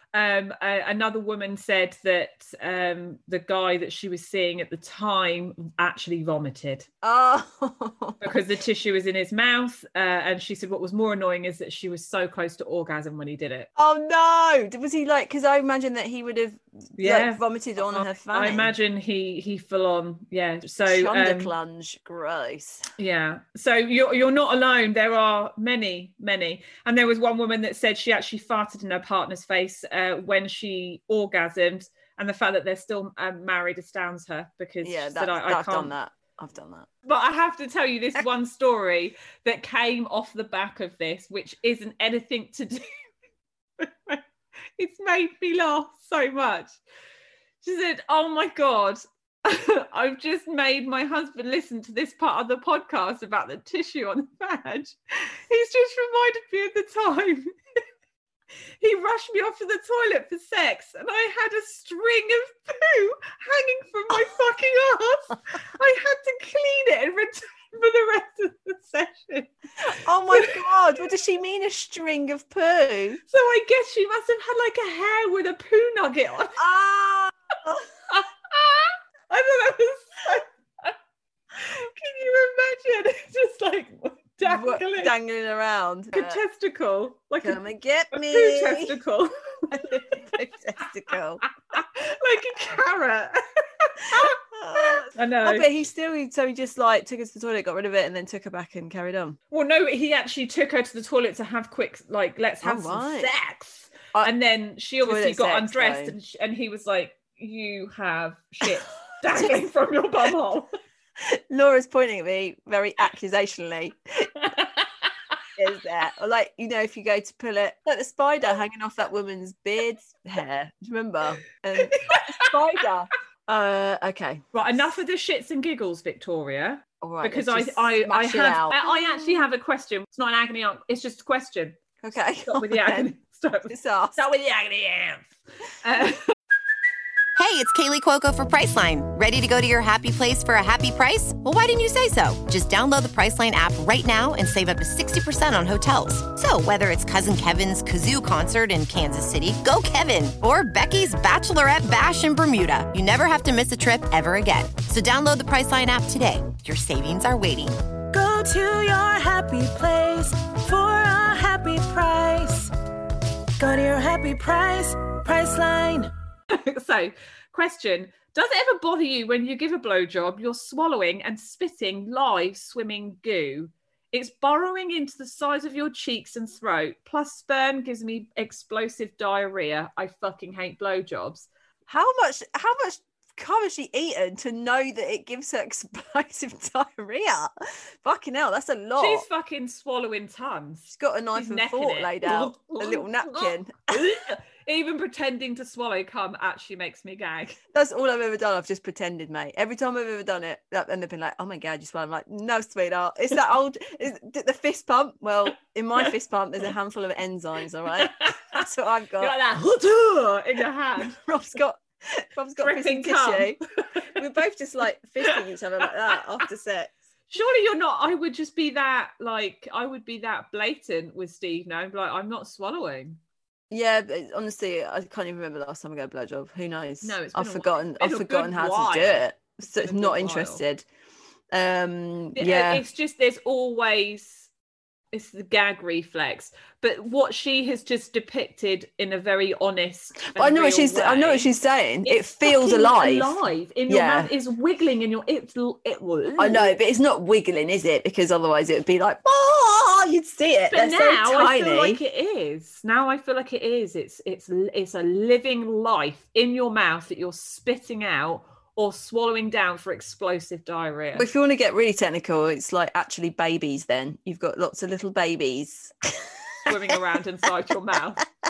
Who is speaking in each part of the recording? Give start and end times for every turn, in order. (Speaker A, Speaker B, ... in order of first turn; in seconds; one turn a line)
Speaker A: 0.1-6.9
Speaker B: 7.0-8.3
Speaker A: 8.2-13.7
Speaker B: 13.8-18.7
Speaker A: 17.0-21.5
Speaker B: 20.8-22.9
Speaker A: 23.0-35.9
Speaker B: 34.8-36.9
Speaker A: 37.0-43.0
Speaker A: 43.8-44.2
Speaker A: 44.8-46.7
Speaker A: 47.6-57.5
Speaker A: 58.8-69.5
Speaker B: 69.8-73.2
Speaker A: 70.3-70.6
Speaker A: 73.3-76.6
Speaker B: 76.5-77.8
Speaker A: 78.1-80.9
Speaker A: 81.5-85.1
Speaker B: 84.4-86.4
Speaker A: 86.1-87.6
Speaker B: 87.4-89.0
Speaker A: 88.1-90.2
Speaker B: 89.7-91.4
Speaker A: 91.7-95.7
Speaker B: 94.0-99.4
Speaker A: 99.5-110.7
Speaker B: 102.6-103.3
Speaker B: 105.0-106.1
Speaker B: 111.2-114.3
Speaker B: 115.6-124.4
Speaker A: 121.8-122.5
Speaker A: 124.5-131.8
Speaker B: 127.0-129.3
Speaker B: 132.0-133.1
Speaker A: 132.4-135.3
Speaker B: 133.7-134.2
Speaker A: 135.8-136.4
Speaker C: 137.3-157.8
Speaker D: 158.1-162.7
Speaker D: 163.6-166.1
Speaker A: 166.5-181.5
Speaker B: 181.9-187.5
Speaker B: 188.0-189.2
Speaker A: 189.0-197.6
Speaker B: 190.9-194.1
Speaker B: 197.7-209.3
Speaker A: 208.0-208.6
Speaker A: 209.2-211.2
Speaker B: 211.1-213.6
Speaker A: 212.6-213.5
Speaker B: 214.1-216.9
Speaker A: 217.3-223.2
Speaker B: 223.7-230.8
Speaker A: 227.0-230.6
Speaker B: 231.5-232.8
Speaker A: 232.3-234.5
Speaker A: 235.1-241.5
Speaker B: 240.3-243.3
Speaker A: 242.0-246.8
Speaker B: 243.9-244.3
Speaker B: 246.4-252.0
Speaker A: 250.7-261.3
Speaker B: 261.1-266.9
Speaker A: 266.6-268.2